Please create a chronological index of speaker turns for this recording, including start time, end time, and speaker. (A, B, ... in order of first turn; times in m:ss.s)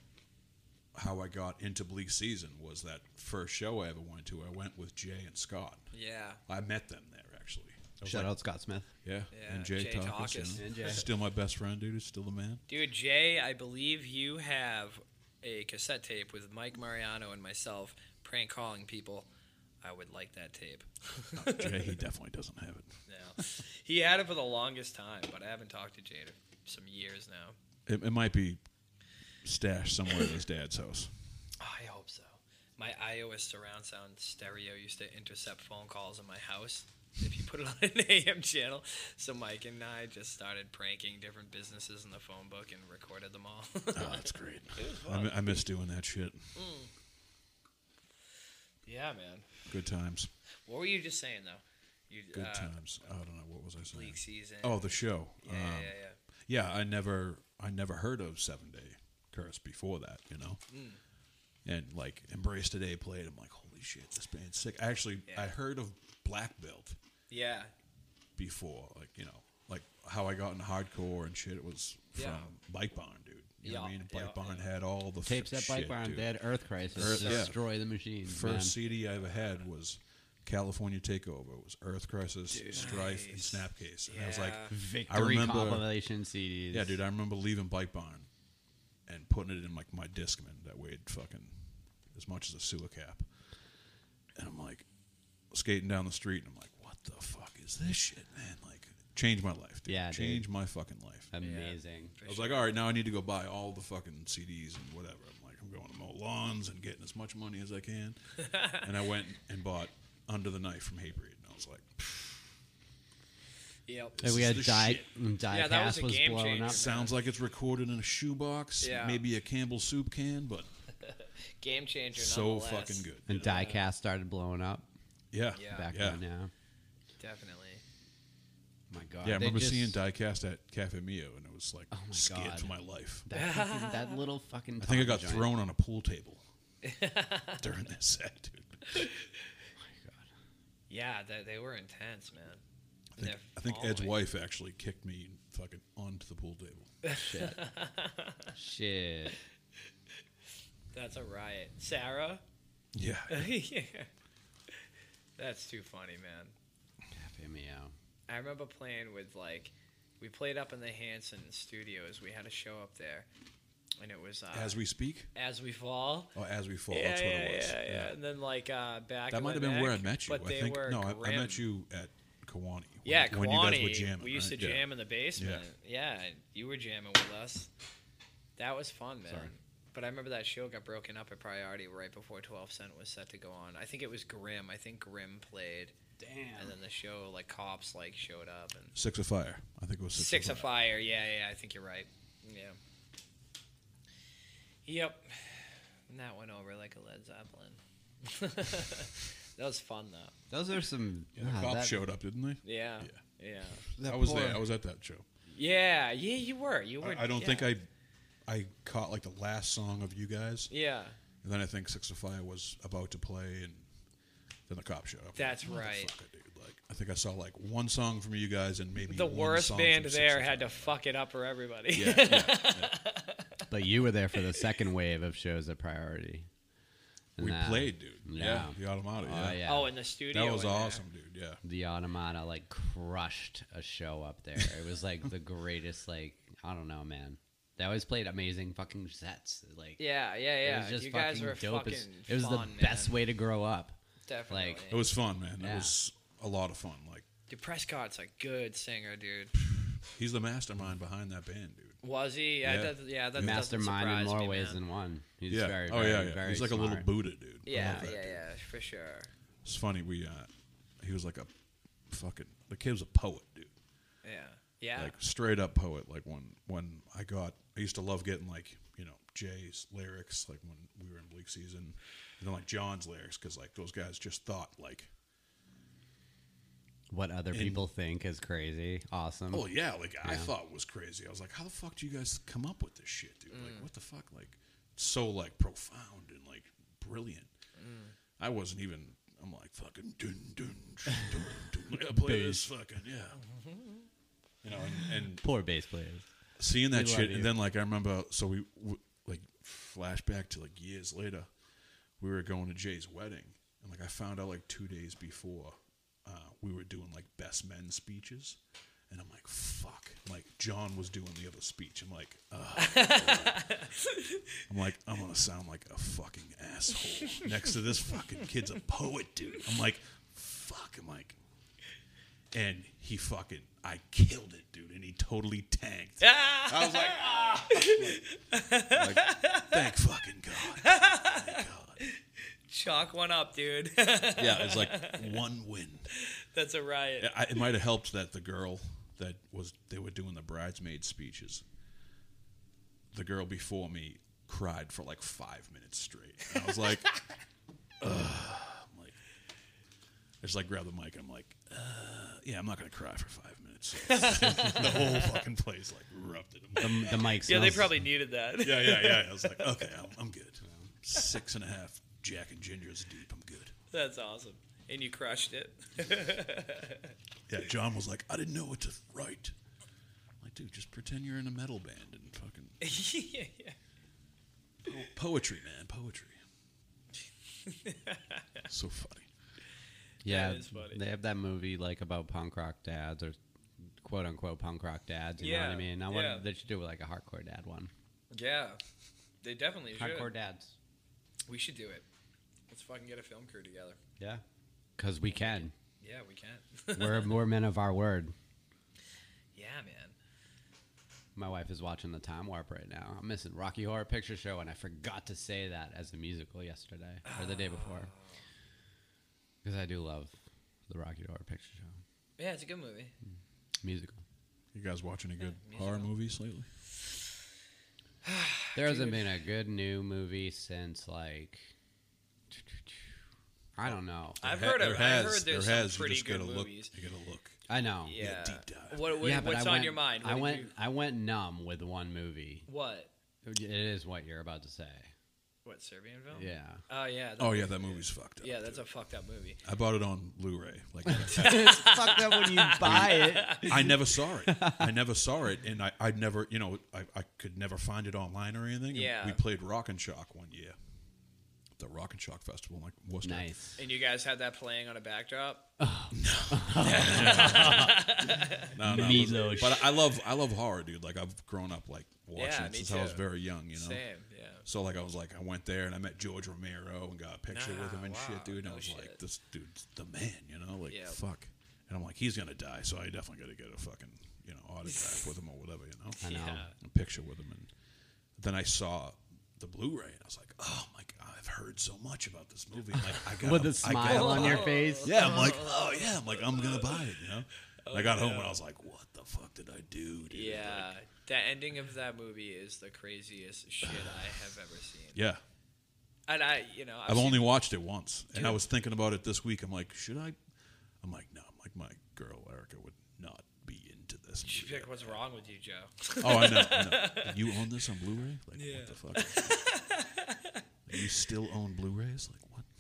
0:01.0-0:05.9 A
0:05.9-0:06.4 B
0:06.5-0:08.3 A
0:08.0-0:08.9 C
0:09.0-0:12.6 A
0:09.3-0:11.0 B
0:10.6-0:11.1 C
0:12.7-0:19.3 B
0:19.8-0:22.0 B
0:21.4-0:23.0 A
0:23.1-0:27.6 B
0:27.9-0:28.6 A
0:29.4-0:31.1 A
0:31.6-0:45.5 B
0:44.0-0:46.6 A
0:46.6-0:46.9 B
0:48.9-0:49.5 B
0:49.7-0:50.3 A
0:50.7-0:52.8 B
0:52.3-1:00.6 A
0:53.9-0:56.2 B
1:00.7-1:01.0 B
1:01.6-1:07.0 A
1:07.3-1:07.7 B
1:08.4-1:16.3 A
1:12.2-1:12.5 B
1:13.6-1:14.7 B
1:15.2-1:18.8 C
1:16.9-1:17.6 A
1:17.0-1:17.5 B
1:18.2-1:25.9 A
1:22.5-1:23.0 C
1:22.7-1:24.8 B
1:24.7-1:27.0 C
1:26.7-1:28.3 A
1:29.1-1:31.5 A
1:32.1-1:33.3 A
1:34.4-1:34.9 A
1:35.5-1:41.3 A
1:39.9-1:40.5 C
1:41.3-1:42.2 C
1:41.4-1:42.7 B
1:42.2-1:52.4 A
1:48.4-1:48.8 B
1:53.9-1:54.2 B
1:54.2-1:55.1 A
1:54.2-1:56.8 C
1:55.5-1:57.2 B
1:56.6-2:00.7 A
1:58.8-1:59.2 B
2:01.0-2:03.9 B
2:02.2-2:03.5 A
2:03.3-2:04.9 C
2:05.3-2:06.2 A
2:05.5-2:05.9 B
2:05.6-2:06.5 C
2:07.2-2:07.8 B
2:08.9-2:10.0 C
2:09.2-2:13.3 A
2:11.9-2:15.5 C
2:13.3-2:14.2 B
2:14.8-2:16.4 A
2:16.8-2:17.6 B
2:17.6-2:19.1 A
2:19.8-2:20.3 C
2:20.9-2:22.6 B
2:23.1-2:26.9 A
2:23.2-2:24.2 B
2:27.0-2:28.6 B
2:27.2-2:27.6 C
2:28.6-2:29.4 C
2:30.9-2:32.4 B
2:33.0-2:33.6 A
2:33.3-2:34.1 B
2:35.4-2:36.6 B
2:37.1-2:37.9 C
2:38.3-2:43.3 B
2:44.0-2:44.8 B
2:44.5-2:45.3 A
2:45.4-2:46.3 B
2:46.4-2:48.2 A
2:46.9-2:51.6 B
2:49.3-2:55.6 A
2:53.0-2:57.7 B
2:58.6-3:06.0 B
2:59.3-2:59.5 C
3:06.2-3:06.8 C
3:06.6-3:09.0 B
3:09.0-3:10.7 A
3:10.2-3:12.8 B
3:14.9-3:20.3 B
3:20.5-3:22.0 C
3:21.4-3:23.2 A
3:22.6-3:23.9 B
3:23.9-3:25.3 A
3:24.0-3:24.6 C
3:25.5-3:27.7 B
3:27.0-3:27.9 A
3:28.5-3:30.7 A
3:30.7-3:31.2 B
3:31.4-3:33.9 A
3:34.7-3:41.0 A
3:35.4-3:36.1 B
3:39.1-3:43.7 B
3:41.9-3:43.0 A
3:43.7-3:46.5 C
3:44.3-3:44.7 B
3:47.4-3:49.9 C
3:47.4-3:49.6 A
3:49.6-3:51.0 B
3:50.3-3:51.6 A
3:51.6-4:00.0 C
4:00.0-4:03.2 B
4:00.6-4:04.8 C
4:04.3-4:05.0 B
4:04.9-4:07.3 A
4:05.6-4:06.0 C
4:07.5-4:09.5 B
4:10.0-4:12.0 A
4:12.0-4:14.8 B
4:12.6-4:13.7 A
4:13.4-4:17.1 C
4:15.5-4:18.4 A
4:17.7-4:19.3 B
4:17.7-4:18.1 C
4:19.6-4:20.5 A
4:21.0-4:21.5 A
4:22.1-4:23.7 A
4:24.2-4:25.2 B
4:25.0-4:35.1 A
4:37.1-4:39.7 C
4:37.5-4:37.9 A
4:39.5-4:47.5 A
4:40.2-4:40.5 C
4:43.5-4:43.9 B
4:47.8-4:48.1 B
4:48.4-4:53.4 A
4:52.1-4:52.7 C
4:53.5-4:54.1 B
4:54.6-4:55.5 A
4:55.1-4:56.3 C
4:56.6-5:01.5 A
4:56.9-4:57.5 C
5:02.2-5:08.6 A
5:09.1-5:13.9 A
5:12.8-5:14.6 B
5:14.7-5:21.4 A
5:22.5-5:28.2 A
5:26.2-5:29.9 B
5:28.9-5:32.0 A
5:30.7-5:35.4 B
5:34.4-5:36.1 A
5:36.1-5:37.6 B
5:37.2-5:41.6 A
5:43.1-5:47.2 A
5:48.0-5:49.2 A
5:50.4-5:57.4 A
5:54.0-5:55.4 B
5:56.8-5:58.0 C
5:56.9-5:59.9 B
5:58.6-6:03.7 A
6:03.9-6:07.2 B
6:07.5-6:09.5 A
6:10.4-6:12.8 A
6:12.8-6:13.8 B
6:14.8-6:16.4 A
6:17.6-6:18.6 B
6:18.7-6:19.3 A
6:20.2-6:27.9 C
6:20.2-6:21.0 B
6:25.4-6:26.5 B
6:28.3-6:28.8 B
6:29.4-6:30.3 B
6:30.0-6:30.8 C
6:31.5-6:32.1 B
6:32.7-6:34.0 B
6:35.0-6:35.7 C
6:35.3-6:37.4 B
6:37.0-6:38.4 C
6:39.5-6:40.2 B
6:41.4-6:48.1 C
6:47.2-6:48.4 B
6:49.6-6:52.0 C
6:52.4-6:53.1 B
6:53.8-6:54.2 C
6:54.7-6:56.7 A
6:55.4-6:56.1 B
6:58.2-6:59.3 B
6:58.8-7:01.7 C
7:02.5-7:03.0 C
7:03.8-7:04.4 C
7:03.8-7:09.1 A
7:04.4-7:06.9 B
7:07.7-7:08.2 C
7:08.0-7:10.7 B
7:09.2-7:12.7 C
7:12.7-7:13.1 B
7:13.4-7:15.1 C
7:15.6-7:19.6 B
7:16.3-7:16.8 C
7:17.4-7:18.8 A
7:19.6-7:21.9 A
7:21.1-7:24.9 C
7:21.3-7:23.9 B
7:22.8-7:30.8 A
7:28.9-7:29.4 B
7:31.8-7:33.5 A
7:33.2-7:33.8 C
7:33.8-7:35.7 B
7:35.8-7:38.1 C
7:36.1-7:38.0 A
7:36.8-7:38.7 B
7:38.7-7:44.0 A
7:38.8-7:40.0 C
7:42.4-7:44.6 B
7:44.6-7:56.2 A
7:47.5-7:49.2 B
7:50.9-7:51.2 B
7:54.9-7:55.3 B
7:56.2-7:56.8 B
7:56.2-7:56.7 C
7:56.8-7:57.7 A
7:58.4-8:10.9 A
8:03.4-8:05.4 C
8:04.0-8:07.3 B
8:07.8-8:08.6 B
8:10.3-8:15.2 B
8:15.1-8:15.4 A
8:16.3-8:17.5 B
8:17.1-8:20.4 A
8:18.3-8:18.6 B
8:21.0-8:25.2 A
8:24.4-8:27.6 B
8:26.2-8:29.6 A
8:28.6-8:31.0 B
8:30.9-8:32.7 A